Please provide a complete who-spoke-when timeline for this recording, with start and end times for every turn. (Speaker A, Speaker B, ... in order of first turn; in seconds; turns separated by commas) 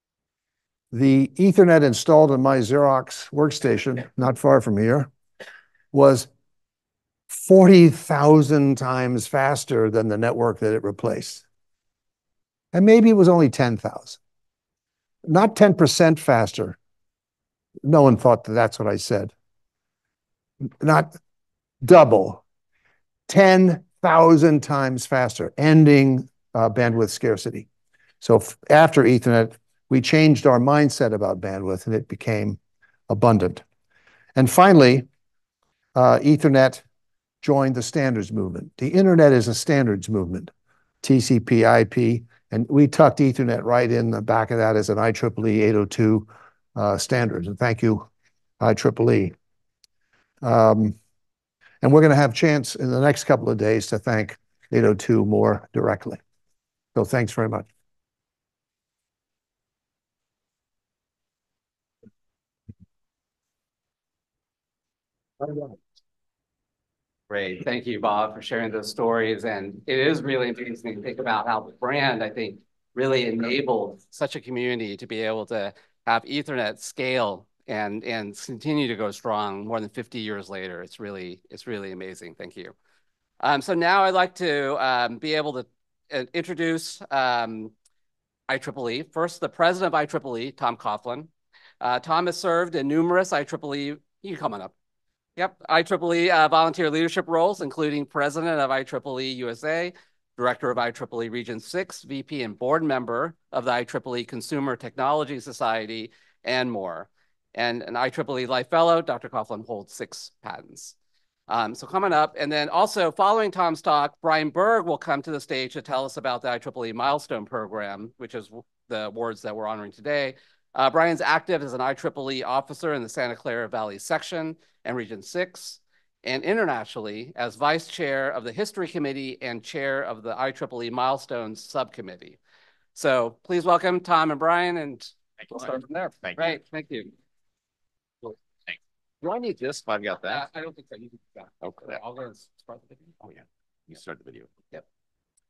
Speaker A: 0.9-5.1, Speaker A: 5.9-6.3, Speaker A: 7.3-11.4, Speaker A: 12.7-14.2, Speaker A: 15.2-16.8, Speaker A: 17.8-19.3, Speaker A: 20.8-21.1, Speaker A: 21.8-22.4, Speaker A: 23.3-27.7, Speaker A: 28.2-32.6, Speaker A: 33.1-33.6, Speaker A: 34.3-35.0, Speaker A: 35.9-36.8, Speaker A: 37.4-40.5, Speaker A: 41.0-48.1, Speaker A: 48.6-49.3, Speaker A: 50.4-51.0, Speaker A: 51.8-56.2, Speaker A: 56.9-57.7, Speaker B: 67.3-82.7, Speaker B: 83.4-87.7, Speaker B: 88.5-91.3, Speaker B: 91.8-94.7, Speaker B: 95.3-110.9, Speaker B: 111.5-132.4, Speaker B: 132.9-135.8, Speaker C: 135.8-136.5, Speaker B: 136.3-137.1, Speaker C: 139.2-140.5, Speaker B: 140.3-141.1, Speaker C: 141.6-142.0, Speaker C: 143.2-144.5